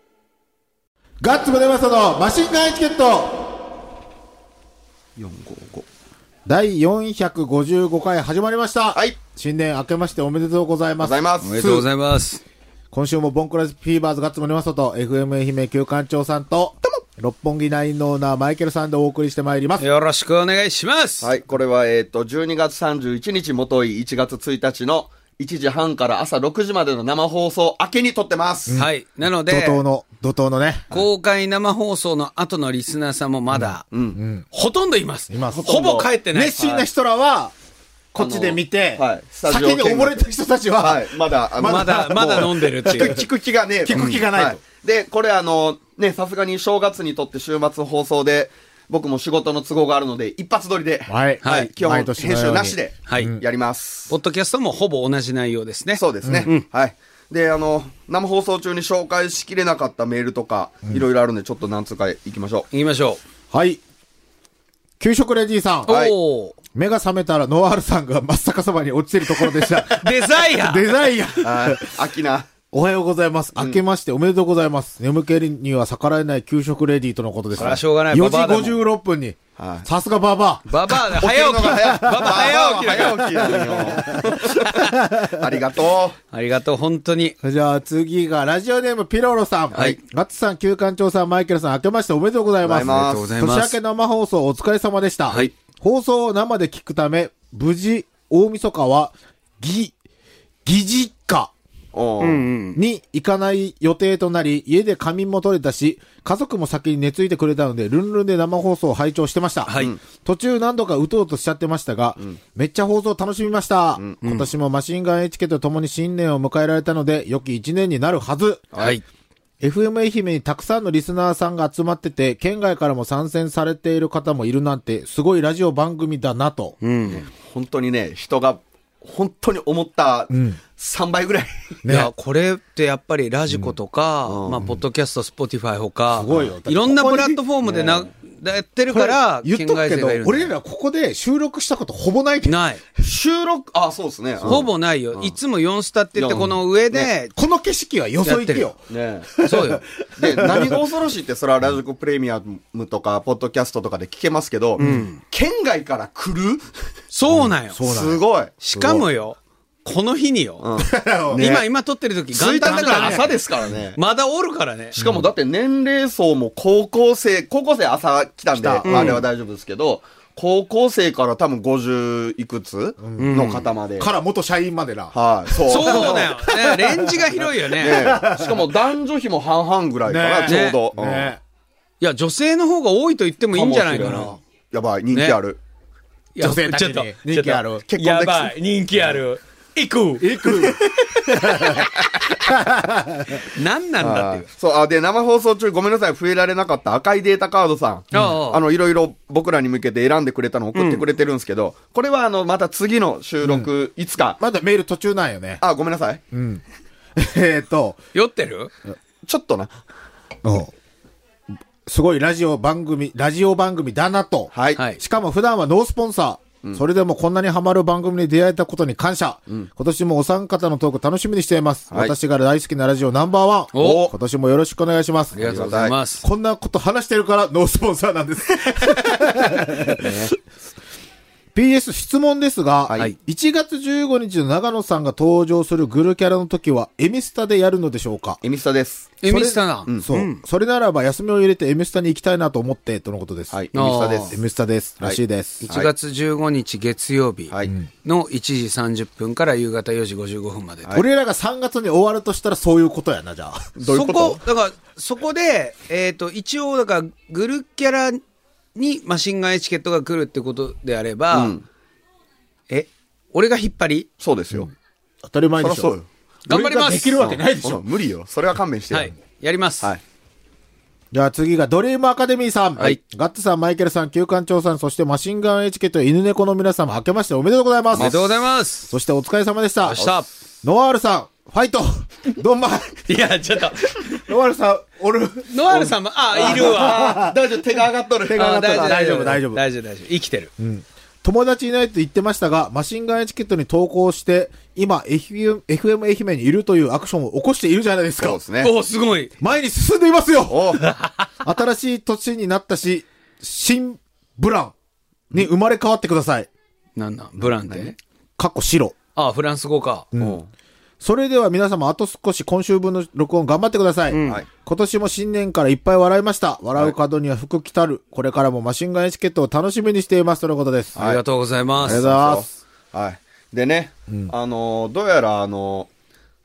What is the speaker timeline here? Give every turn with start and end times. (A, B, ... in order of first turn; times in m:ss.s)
0:01.2-0:03.6 A
0:05.2-0:05.9 B
0:06.4-0:11.9 A
0:11.0-0:11.7 B
0:11.4-0:12.4 C
0:12.9-0:19.8 A
0:19.8-0:21.3 C
0:21.2-0:28.8 B
0:28.7-0:29.8 C
0:29.4-0:30.8 A
0:30.9-0:33.9 C
0:33.5-0:34.4 A
0:33.9-0:34.2 B
0:34.5-0:36.8 C
0:35.3-0:35.7 A
0:35.5-0:36.1 B
0:36.3-0:37.5 A
0:38.1-0:43.3 A
0:38.2-0:40.2 B
0:40.8-0:54.1 B
0:41.6-0:43.2 C
0:43.8-0:44.6 A
0:51.1-0:53.4 A
0:51.4-0:51.7 C
0:53.1-0:53.4 C
0:54.1-0:56.6 C
0:55.9-1:02.7 B
0:56.2-0:56.5 A
1:02.7-1:03.2 C
1:03.5-1:03.8 A
1:05.0-1:05.9 A
1:05.8-1:06.5 C
1:05.9-1:06.1 B
1:06.7-1:11.9 A
1:09.9-1:10.9 C
1:11.4-1:12.5 B
1:12.7-1:21.0 A
1:17.6-1:18.8 C
1:19.6-1:19.9 B
1:20.7-1:24.0 C
1:21.1-1:26.2 B
1:21.6-1:25.4 A
1:24.6-1:24.9 C
1:26.3-1:27.4 C
1:27.4-1:39.9 A
1:32.6-1:33.3 B
1:32.8-1:33.8 C
1:40.6-1:41.5 A
1:41.9-1:42.5 B
1:42.2-1:42.8 C
1:42.7-1:58.7 A
1:49.6-1:49.9 C
1:54.2-1:54.5 C
1:58.7-1:59.0 B
1:58.8-1:59.0 C
1:59.6-2:06.8 A
2:06.8-2:07.2 C
2:07.1-2:11.5 B
2:10.3-2:10.6 A
2:11.8-2:12.1 A
2:11.9-2:20.5 C
2:14.3-2:14.6 B
2:16.1-2:17.4 A
2:17.6-2:18.1 B
2:18.9-2:22.6 A
2:22.4-2:22.8 C
2:23.0-2:25.3 B
2:24.4-2:27.4 C
2:26.2-2:27.1 B
2:27.3-2:30.9 A
2:28.2-2:28.7 C
2:28.9-2:29.3 B
2:29.4-2:29.8 C
2:30.2-2:36.7 B
2:34.8-2:35.1 A
2:34.8-2:35.2 C
2:37.1-2:37.8 C
2:37.3-2:39.0 A
2:37.8-2:38.5 B
2:38.6-2:40.6 C
2:40.6-2:41.6 B
2:40.8-2:41.4 A
2:41.4-2:45.0 C
2:42.3-2:44.0 B
2:42.7-2:43.3 A
2:45.0-2:45.3 A
2:45.0-2:54.1 B
2:48.5-2:49.2 A
2:48.8-2:49.2 C
2:53.0-2:57.3 A
2:53.2-2:53.7 C
2:55.1-2:56.3 B
2:55.6-2:58.2 C
2:57.8-3:01.3 B
2:57.8-2:58.7 A
3:00.0-3:01.4 A
3:00.4-3:00.8 C
3:02.0-3:04.4 C
3:03.5-3:05.6 B
3:03.7-3:04.4 A
3:05.1-3:05.4 C
3:06.4-3:10.8 C
3:06.4-3:07.8 A
3:07.9-3:09.1 B
3:10.2-3:11.8 A
3:12.4-3:13.4 A
3:13.4-3:14.4 C
3:14.0-3:24.4 B
3:18.1-3:18.6 C
3:20.7-3:21.0 C
3:23.4-3:23.7 A
3:24.4-3:25.6 A
3:25.6-3:26.2 B
3:26.3-3:26.6 A
3:27.2-3:28.0 A
3:28.1-3:28.7 C
3:29.2-3:29.7 B
3:30.4-3:30.7 A
3:31.8-3:45.4 A
3:34.5-3:34.8 B
3:43.7-3:44.1 C
3:43.7-3:44.1 B
3:45.3-3:46.2 C
3:45.4-3:46.0 B
3:46.2-3:50.3 A
3:50.0-3:50.3 B
3:51.5-3:58.4 A
3:52.9-3:53.1 B
3:58.4-3:59.2 B
3:59.2-4:00.4 C
3:59.2-4:03.6 A
4:03.5-4:04.4 B
4:03.7-4:04.4 C
4:04.3-4:05.6 A
4:05.0-4:05.9 B
4:05.6-4:07.5 C
4:08.0-4:10.9 C
4:10.9-4:13.7 A
4:13.8-4:14.4 B
4:13.8-4:18.2 C
4:18.7-4:21.5 C
4:21.3-4:21.6 B
4:22.7-4:24.1 C
4:24.2-4:24.7 B
4:25.2-4:25.9 A
4:25.6-4:26.0 B
4:26.4-4:27.8 A
4:26.5-4:27.2 C
4:27.2-4:29.1 B
4:28.9-4:29.9 C
4:31.1-4:38.2 A
4:37.9-4:38.9 C
4:37.9-4:38.2 B
4:38.8-4:43.2 A
4:39.8-4:40.3 C
4:43.1-4:44.0 C
4:44.1-4:47.4 A
4:45.5-4:47.2 C
4:46.3-4:49.0 B
4:48.2-4:49.6 A
4:48.4-4:50.5 C
4:50.6-4:58.4 A
4:58.2-4:58.7 B
4:58.6-4:59.3 C
4:59.4-5:04.7 A
5:00.5-5:00.9 B
5:05.3-5:06.5 A
5:07.0-5:08.0 C
5:08.4-5:08.9 A
5:09.2-5:10.1 C
5:10.1-5:10.4 A
5:10.2-5:10.5 B
5:11.0-5:21.0 A
5:14.1-5:14.4 C
5:21.0-5:21.2 B
5:21.0-5:22.0 C
5:21.7-5:25.9 B
5:21.8-5:22.5 A